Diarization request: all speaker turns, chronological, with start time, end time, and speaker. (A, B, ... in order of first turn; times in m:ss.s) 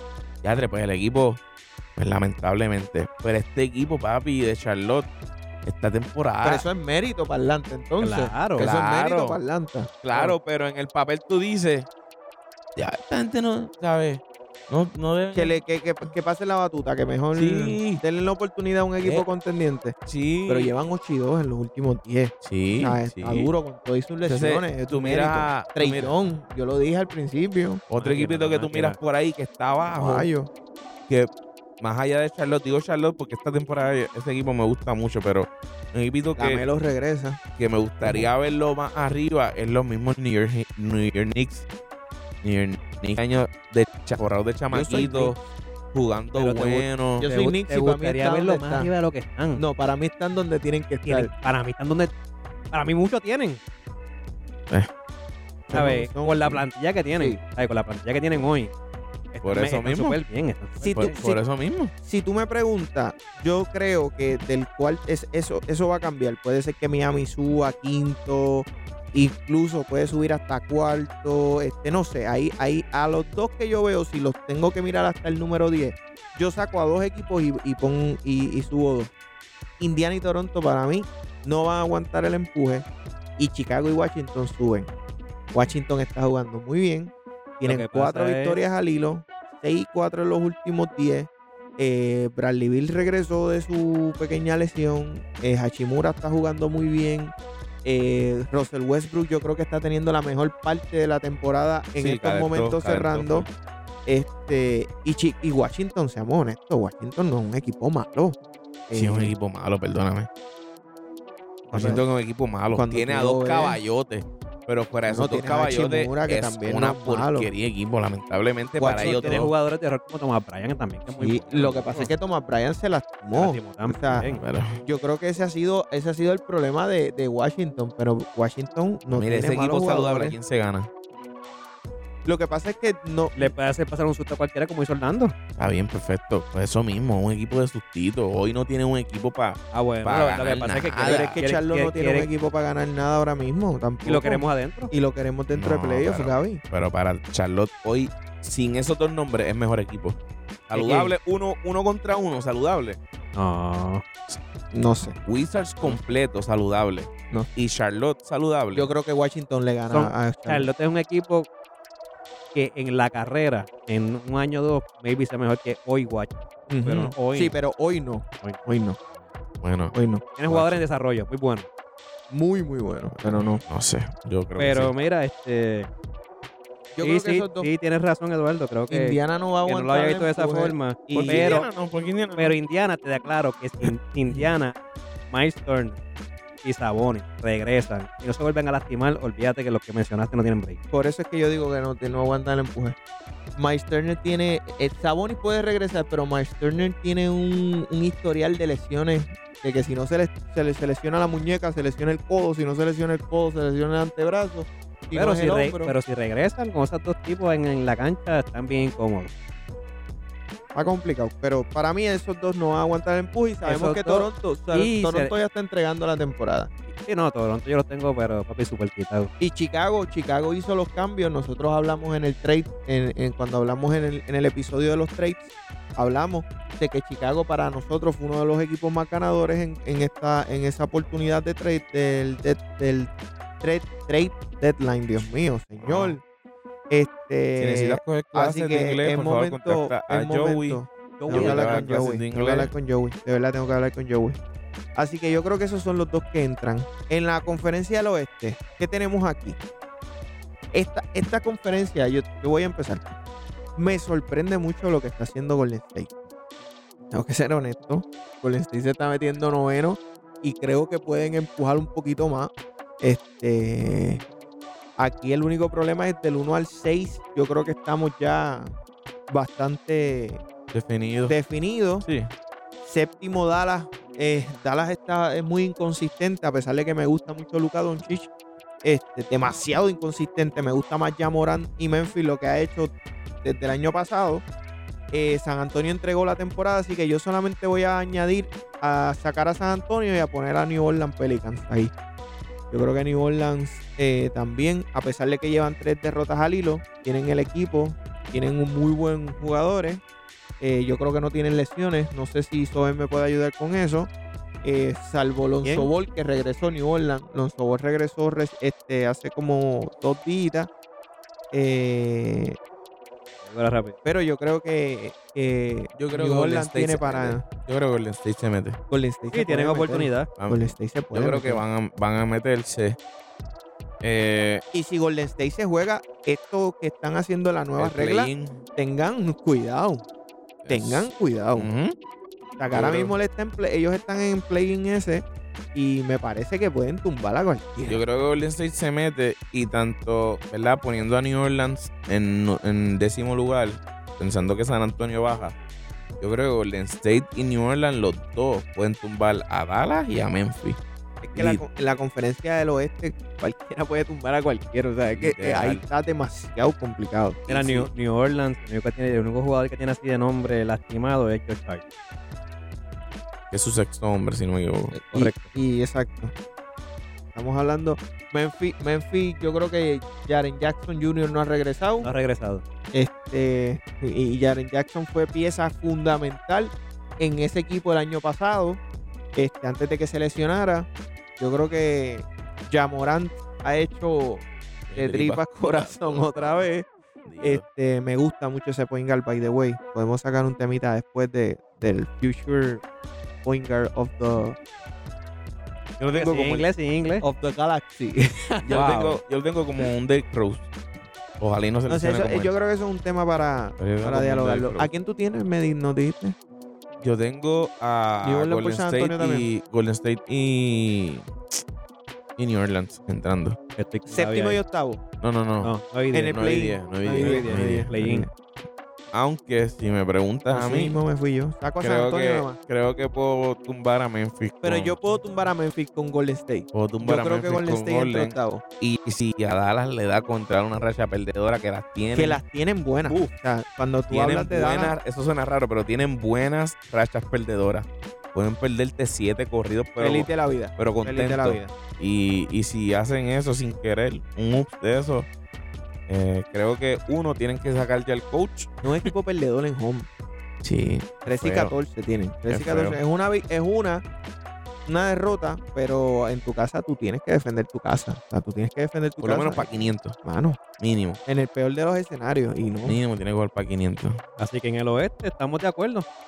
0:00.4-0:01.4 A
0:02.0-0:05.1 A
0:05.6-0:06.6 A
0:06.4-0:09.9 B
0:08.0-0:08.7 C
0:08.6-0:09.4 A
0:10.0-0:11.9 A
0:12.8-0:15.6 A
0:15.3-0:19.9 B
0:17.3-0:18.0 A
0:19.0-0:19.3 A
0:20.0-0:20.7 A
0:20.5-0:27.8 B
0:22.4-0:23.5 A
0:24.3-0:26.1 A
0:27.9-0:30.3 A
0:28.0-0:29.0 C
0:29.9-0:30.5 B
0:31.8-0:36.6 A
0:36.4-0:37.4 B
0:37.6-0:41.6 A
0:38.0-0:38.3 B
0:42.4-0:45.4 A
0:44.7-0:45.4 B
0:45.9-0:47.3 A
0:46.3-0:49.6 C
0:47.2-0:48.9 B
0:49.5-0:51.3 B
0:51.0-0:52.1 C
0:52.7-0:53.6 C
0:55.7-0:56.6 B
0:55.7-0:58.7 C
0:59.3-1:01.2 C
0:59.4-1:00.2 A
1:00.8-1:01.4 B
1:00.9-1:01.9 A
1:02.0-1:19.1 B
1:19.8-1:22.8 B
1:23.4-1:24.9 B
1:25.5-1:43.5 B
1:27.6-1:28.6 C
1:42.0-1:43.5 A
1:44.0-1:48.4 B
1:48.9-1:49.3 B
1:48.9-1:50.3 A
1:51.7-1:52.0 B
1:51.7-1:59.5 A
1:52.7-1:53.8 B
1:55.0-1:57.5 B
1:58.8-1:59.4 B
1:58.9-2:02.1 C
2:01.1-2:10.4 B
2:03.3-2:04.4 C
2:04.4-2:04.8 A
2:09.1-2:10.9 A
2:12.2-2:13.5 B
2:13.4-2:15.3 C
2:15.6-2:21.4 A
2:19.7-2:22.3 C
2:21.0-2:26.6 B
2:24.0-2:24.9 C
2:25.5-2:30.2 A
2:30.7-2:33.0 A
2:30.7-2:31.1 C
2:33.3-2:34.0 C
2:34.7-2:35.2 B
2:35.2-2:38.9 A
2:38.7-2:40.7 B
2:39.9-2:41.5 C
2:42.5-2:47.6 C
2:46.7-2:49.0 B
2:49.6-2:49.9 A
2:49.9-2:50.2 B
2:50.4-2:51.7 C
2:50.4-2:50.8 A
2:52.3-2:53.6 B
2:53.2-2:54.9 A
2:54.6-2:55.9 C
2:56.9-2:57.7 B
2:57.0-3:01.6 C
2:58.9-3:01.7 B
3:01.1-3:02.5 A
3:02.4-3:04.8 C
3:05.3-3:06.0 C
3:06.6-3:10.8 C
3:10.9-3:13.0 B
3:13.5-3:25.9 B
3:25.1-3:29.3 C
3:30.7-3:36.7 B
3:33.6-3:35.3 C
3:36.9-3:39.3 C
3:39.4-3:56.2 B
3:55.8-3:56.2 A
3:56.9-4:04.4 B
3:57.6-4:02.7 A
4:01.2-4:01.9 C
4:04.9-4:09.6 B
4:10.7-4:13.2 B
4:13.8-4:16.1 B
4:17.1-4:24.2 B
4:25.0-4:28.7 B
4:29.3-4:30.4 B
4:30.7-4:31.4 A
4:31.3-4:32.1 B
4:32.0-4:32.3 A
4:32.8-4:38.3 B
4:38.8-4:42.9 B
4:43.4-4:44.4 B
4:45.1-4:51.9 B
4:52.7-5:00.0 B
5:00.6-5:04.1 B
5:04.6-5:10.7 B
5:05.6-5:05.9 C
5:11.5-5:12.6 B
5:13.4-5:14.0 C
5:14.0-5:17.4 B
5:16.0-5:18.8 A
5:18.9-5:21.6 B
5:19.3-5:20.3 C
5:20.4-5:23.0 A
5:24.0-5:24.6 A
5:24.7-5:30.0 B
5:27.8-5:28.6 A
5:30.6-5:31.9 A
5:30.7-5:31.7 B
5:32.6-5:38.0 B
5:32.7-5:33.1 A
5:37.9-5:45.5 A
5:46.2-5:50.8 A
5:51.2-5:57.9 B
5:51.3-5:51.6 A
5:55.1-5:55.8 A
5:57.5-6:01.8 C
6:03.5-6:05.4 A
6:04.9-6:06.3 B
6:07.3-6:12.1 B
6:12.0-6:12.6 C
6:12.9-6:18.8 B
6:19.4-6:26.9 B
6:24.9-6:26.7 A
6:27.2-6:27.6 A
6:27.4-6:32.8 B
6:33.4-6:34.6 B
6:36.0-6:36.7 A
6:36.1-6:37.2 C
6:37.2-6:39.2 B
6:38.6-6:40.7 A
6:41.4-6:42.5 A
6:41.9-6:46.4 B
6:43.8-6:44.9 A
6:47.0-6:51.3 A
6:48.2-6:49.5 B
6:52.4-6:53.6 A
6:53.8-6:54.6 C
6:54.1-6:55.0 B
6:55.2-6:55.7 A
6:55.6-6:56.4 C
6:56.1-6:58.3 B
6:56.3-6:57.9 A
6:57.2-6:58.3 C
6:59.1-7:01.0 A
7:00.5-7:02.6 B
7:01.8-7:05.0 A
7:04.6-7:08.6 B
7:06.7-7:12.4 A
7:12.1-7:15.0 B
7:13.0-7:13.3 A
7:14.1-7:25.3 A
7:20.0-7:21.7 B
7:26.1-7:29.1 A
7:28.8-7:30.1 B
7:30.6-7:31.7 A
7:31.2-7:34.0 B
7:32.5-7:33.0 A
7:34.8-7:40.6 B
7:39.2-7:40.2 A
7:40.8-7:41.2 A
7:41.2-7:43.0 B
7:42.8-7:44.2 A
7:44.4-7:46.1 C